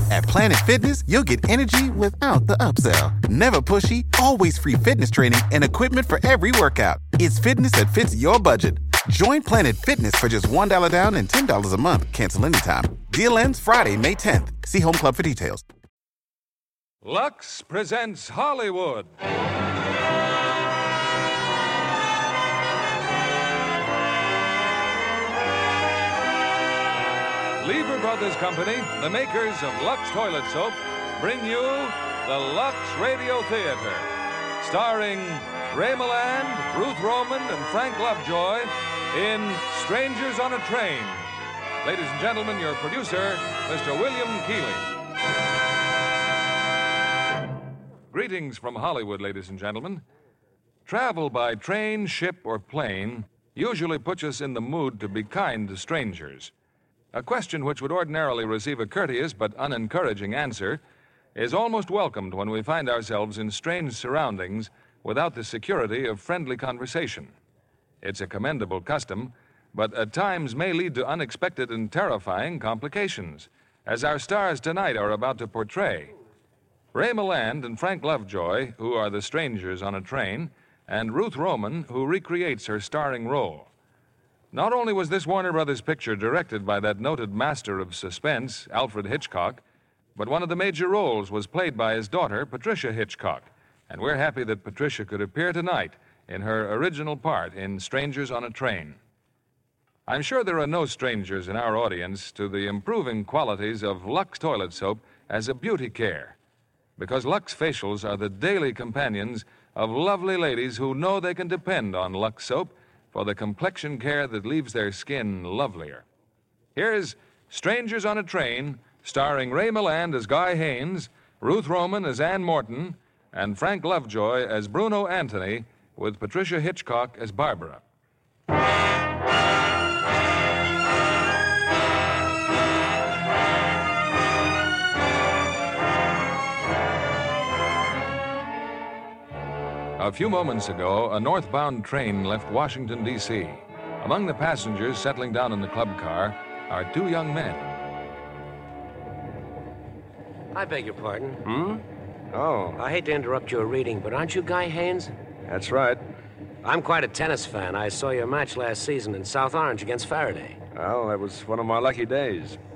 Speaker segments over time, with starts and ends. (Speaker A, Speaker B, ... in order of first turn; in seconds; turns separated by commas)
Speaker A: 0.1-15.6, Speaker B: 17.0-19.1, Speaker B: 27.6-34.1, Speaker B: 34.6-41.3, Speaker B: 41.8-44.9, Speaker B: 48.1-50.0, Speaker B: 50.9-56.5, Speaker B: 57.1-60.8, Speaker B: 61.4-67.3, Speaker B: 68.0-76.1, Speaker B: 76.9-83.7, Speaker B: 84.5-89.6, Speaker B: 90.2-99.0, Speaker B: 100.1-106.4, Speaker B: 107.0-116.0, Speaker B: 116.8-127.8, Speaker B: 140.0-147.6, Speaker C: 150.5-151.4, Speaker D: 151.4-152.8, Speaker C: 152.8-155.1, Speaker D: 155.5-156.0, Speaker C: 156.6-160.6, Speaker D: 160.7-162.6